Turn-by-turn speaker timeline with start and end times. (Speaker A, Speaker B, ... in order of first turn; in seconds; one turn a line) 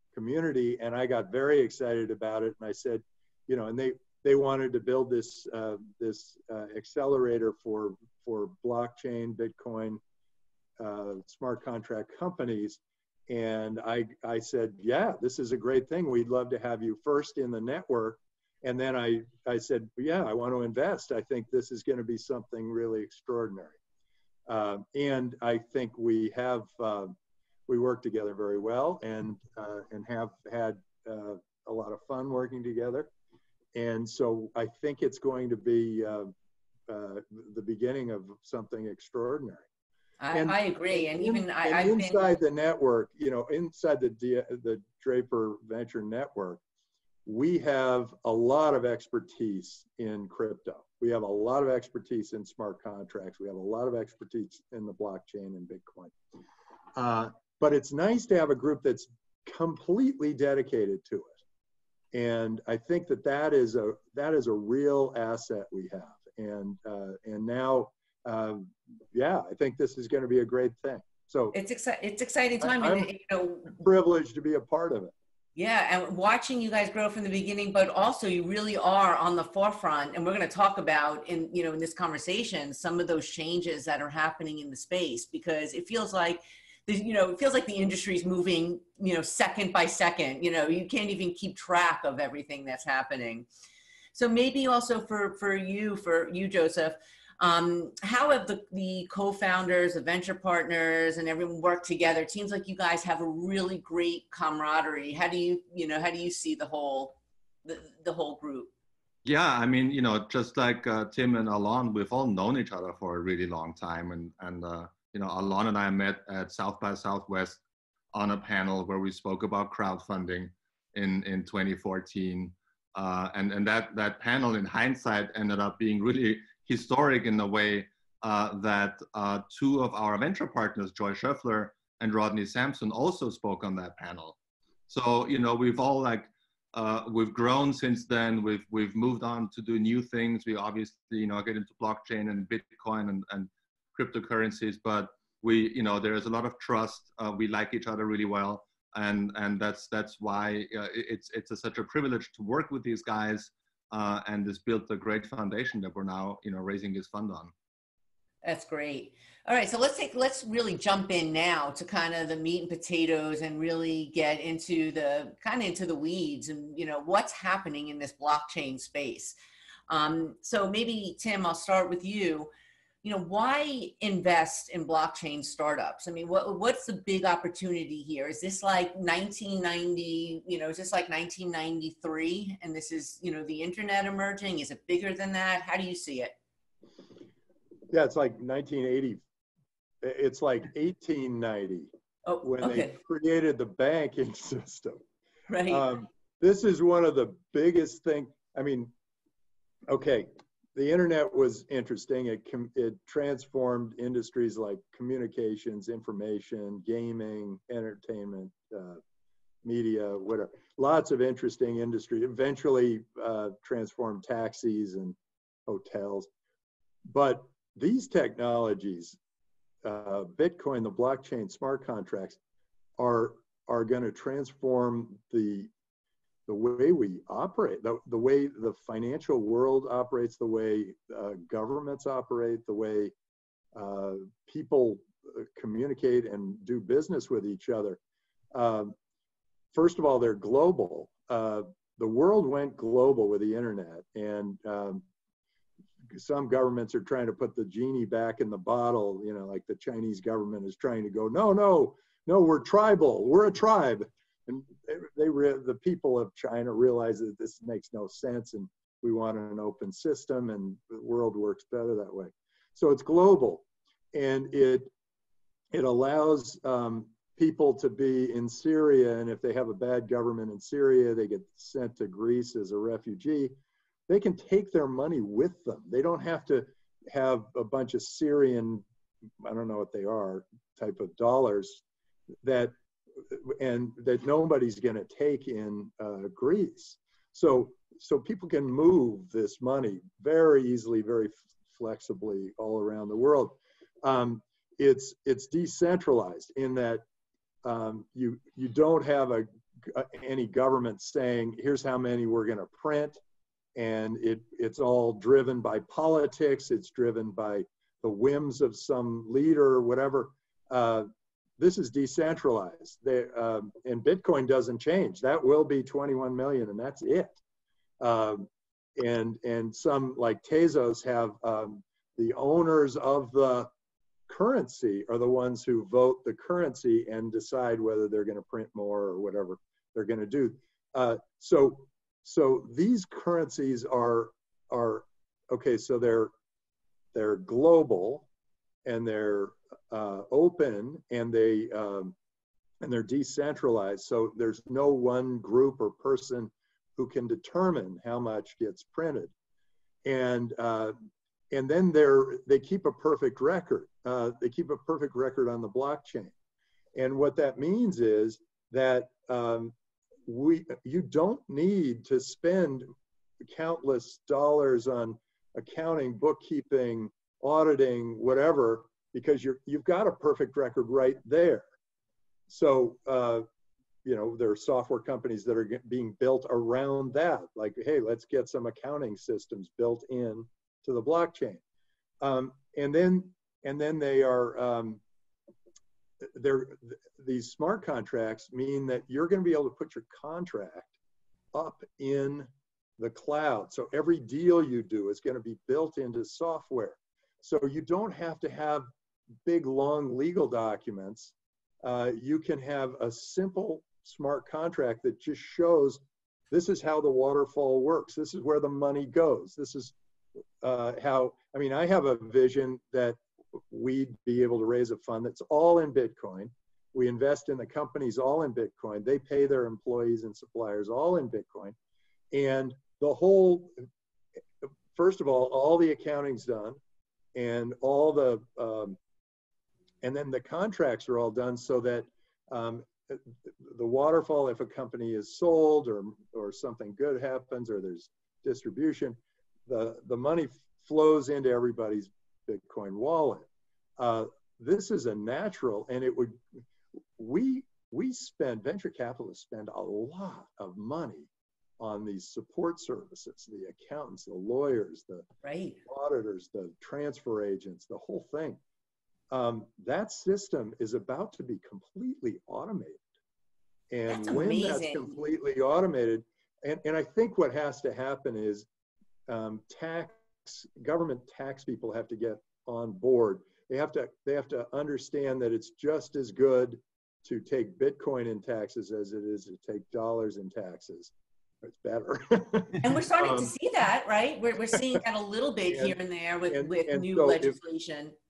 Speaker A: 0.1-10.0
Speaker A: 10.8-23.8
Speaker A: 24.5-27.1
Speaker A: 27.7-33.1
Speaker A: 33.7-36.3
Speaker A: 36.9-39.7
Speaker B: 40.2-42.4
Speaker A: 40.3-46.6
Speaker A: 47.2-56.1
Speaker A: 56.9-61.4
Speaker A: 62.1-71.5
Speaker B: 71.5-73.8
Speaker A: 72.6-73.1
Speaker A: 73.7-75.1
Speaker B: 75.5-93.5
Speaker B: 94.1-108.7
Speaker C: 109.2-117.6
Speaker C: 118.1-134.4
Speaker C: 134.9-157.5
Speaker B: 158.4-169.3
Speaker B: 169.9-172.5
Speaker B: 173.0-186.3
Speaker A: 187.9-189.2
Speaker A: 190.0-191.9
Speaker B: 192.2-192.9
Speaker A: 192.4-195.0
Speaker B: 195.5-195.9
Speaker A: 195.7-198.9
Speaker A: 199.9-209.0
Speaker A: 209.6-216.3
Speaker A: 217.1-219.2
Speaker A: 219.8-222.4
Speaker A: 223.0-225.7
Speaker A: 226.5-233.1
Speaker A: 233.7-238.0
Speaker A: 238.5-238.9
Speaker A: 239.7-245.0
Speaker A: 246.1-264.9
Speaker A: 265.7-273.5
Speaker A: 274.1-278.8
Speaker A: 279.4-281.8
Speaker A: 282.4-297.0
Speaker A: 297.6-303.2
Speaker A: 303.7-311.1
Speaker A: 311.6-317.4
Speaker A: 318.0-323.7
Speaker A: 324.3-336.3
Speaker A: 337.1-338.3
Speaker A: 338.8-342.1
Speaker A: 342.8-349.3
Speaker A: 350.0-350.9
Speaker A: 351.5-356.3
Speaker A: 356.9-359.7
Speaker A: 360.2-362.9
Speaker A: 363.4-371.6
Speaker A: 372.5-373.4
Speaker A: 374.0-381.6
Speaker A: 382.2-385.0
Speaker A: 386.2-390.9
Speaker A: 391.5-398.9
Speaker A: 399.4-409.9
Speaker A: 410.6-421.8
Speaker A: 422.3-423.8
Speaker A: 424.9-426.8
Speaker A: 427.3-429.0
Speaker A: 430.0-443.5
Speaker A: 444.0-446.4
Speaker A: 447.2-455.3
Speaker B: 455.4-455.8
Speaker A: 455.8-458.6
Speaker A: 459.3-463.0
Speaker A: 463.9-468.6
Speaker B: 464.1-465.1
Speaker A: 469.3-483.5
Speaker B: 482.8-488.1
Speaker A: 484.8-485.0
Speaker A: 485.7-486.0
Speaker A: 486.5-487.6